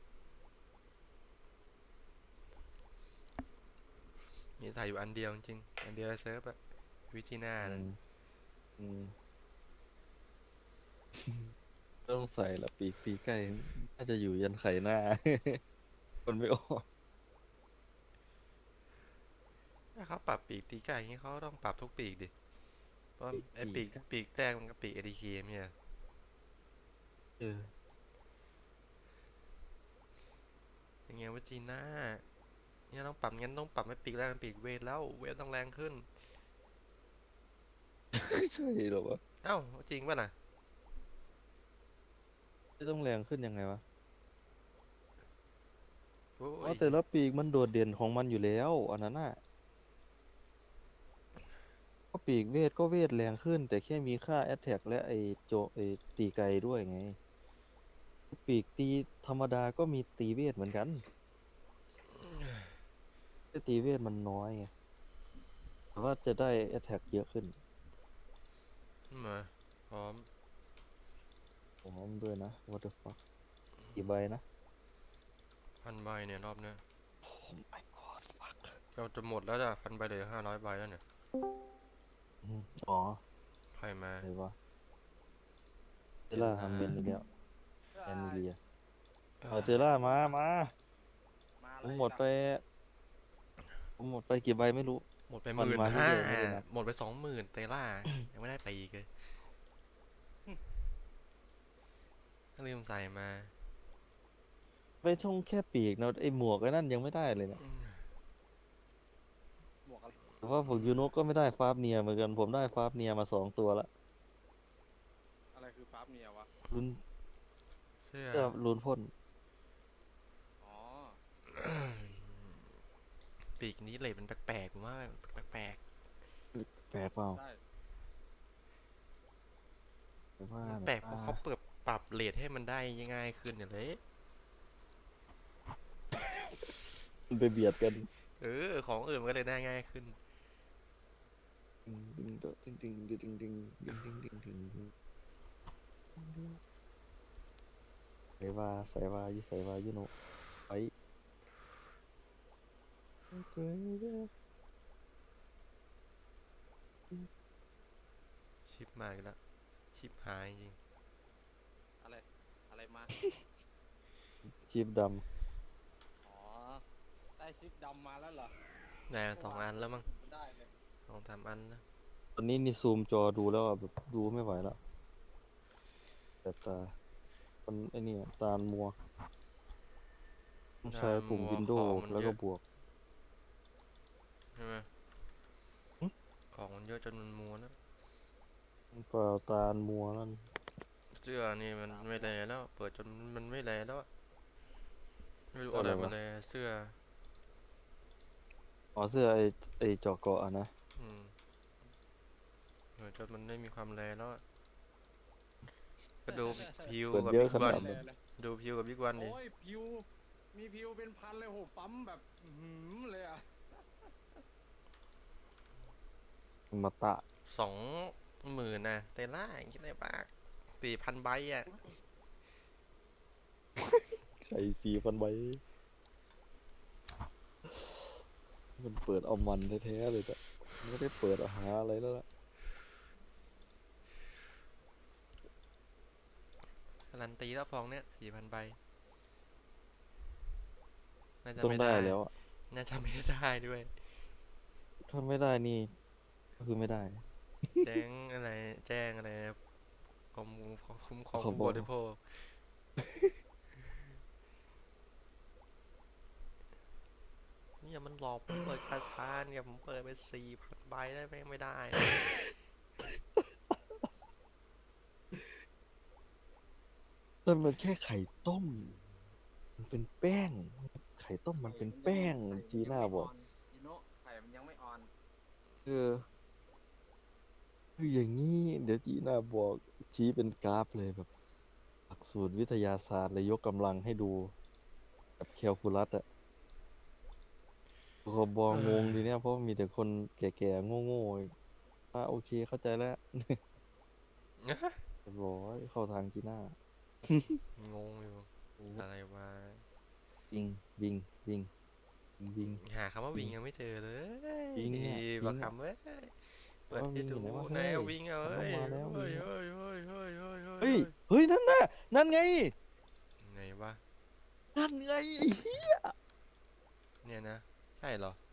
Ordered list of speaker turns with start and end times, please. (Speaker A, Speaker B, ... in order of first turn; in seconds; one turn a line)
Speaker A: 4.6-6.6
Speaker A: 7.1-7.9
Speaker B: 7.6-8.0
Speaker B: 8.8-9.1
Speaker B: 11.2-11.5
Speaker B: 12.1-15.6
Speaker B: 16.3-16.8
Speaker A: 19.9-22.3
Speaker A: 23.2-25.7
Speaker B: 23.3-24.0
Speaker B: 27.4-27.7
Speaker A: 31.1-32.2
Speaker A: 32.9-36.1
Speaker B: 38.1-39.2
Speaker A: 39.4-40.3
Speaker B: 42.8-43.8
Speaker A: 46.4-47.0
Speaker B: 46.6-49.4
Speaker B: 52.1-57.2
Speaker B: 58.3-61.0
Speaker A: 62.1-62.7
Speaker B: 63.5-64.7
Speaker B: 66.0-67.5
Speaker A: 69.1-70.3
Speaker B: 71.8-73.2
Speaker B: 74.0-74.4
Speaker A: 75.8-76.8
Speaker B: 77.2-78.8
Speaker A: 78.9-81.0
Speaker B: 82.4-83.2
Speaker A: 83.8-84.3
Speaker B: 84.2-84.5
Speaker A: 86.3-87.0
Speaker B: 86.3-87.2
Speaker C: 87.9-88.5
Speaker B: 88.0-88.6
Speaker A: 89.4-89.8
Speaker B: 89.5-90.7
Speaker C: 89.5-89.8
Speaker C: 91.6-92.2
Speaker B: 91.8-92.6
Speaker B: 94.0-96.6
Speaker A: 95.3-99.1
Speaker A: 102.6-103.5
Speaker B: 105.0-107.6
Speaker A: 107.6-108.0
Speaker C: 109.8-110.1
Speaker B: 110.4-113.9
Speaker A: 110.7-111.0
Speaker C: 115.5-116.5
Speaker B: 116.7-117.0
Speaker A: 118.0-118.5
Speaker B: 118.3-119.1
Speaker C: 120.6-121.2
Speaker A: 121.5-122.6
Speaker A: 123.6-125.8
Speaker B: 126.5-127.4
Speaker C: 127.3-127.6
Speaker B: 130.4-131.4
Speaker A: 130.6-134.0
Speaker B: 136.1-136.5
Speaker B: 137.3-138.1
Speaker A: 138.4-140.2
Speaker B: 141.8-144.9
Speaker B: 146.2-146.6
Speaker B: 148.4-150.1
Speaker B: 153.3-154.3
Speaker A: 158.7-159.4
Speaker A: 159.9-160.8
Speaker C: 162.0-163.1
Speaker B: 164.4-165.2
Speaker C: 166.2-166.8
Speaker C: 167.4-168.5
Speaker A: 169.1-170.1
Speaker C: 169.3-170.7
Speaker A: 171.1-171.8
Speaker B: 172.3-174.8
Speaker B: 176.4-176.9
Speaker B: 177.7-178.9
Speaker B: 180.8-182.6
Speaker A: 180.9-182.4
Speaker A: 184.6-184.8
Speaker A: 186.5-187.8
Speaker B: 188.9-190.5
Speaker A: 191.1-194.1
Speaker C: 191.9-192.3
Speaker A: 195.5-196.9
Speaker B: 195.7-196.2
Speaker B: 198.9-200.7
Speaker A: 200.9-201.3
Speaker A: 203.0-204.4
Speaker A: 206.2-209.4
Speaker C: 206.3-206.9
Speaker B: 207.1-208.0
Speaker C: 207.5-208.2
Speaker C: 209.2-214.1
Speaker B: 216.7-217.2
Speaker A: 217.5-221.7
Speaker B: 223.8-225.6
Speaker B: 228.8-232.2
Speaker A: 237.1-238.8
Speaker A: 241.4-243.9
Speaker B: 241.6-242.3
Speaker B: 245.1-245.9
Speaker B: 246.6-248.0
Speaker A: 247.8-249.6
Speaker A: 250.3-252.5
Speaker B: 251.3-251.9
Speaker B: 253.0-253.3
Speaker A: 257.8-262.3
Speaker B: 261.9-264.1
Speaker B: 267.4-268.9
Speaker B: 269.8-273.3
Speaker C: 271.6-275.1
Speaker B: 275.9-276.2
Speaker B: 278.0-281.3
Speaker B: 282.1-284.5
Speaker B: 285.4-286.2
Speaker B: 288.2-291.5
Speaker A: 288.7-289.3
Speaker B: 292.1-293.6
Speaker A: 294.6-295.0
Speaker B: 295.2-297.6
Speaker A: 297.8-299.8
Speaker B: 298.8-299.1
Speaker B: 300.5-301.7
Speaker B: 302.4-302.8
Speaker A: 302.6-311.1
Speaker B: 304.8-305.7
Speaker B: 306.9-309.5
Speaker B: 310.8-312.7
Speaker A: 313.4-314.0
Speaker B: 314.8-316.1
Speaker A: 317.2-318.4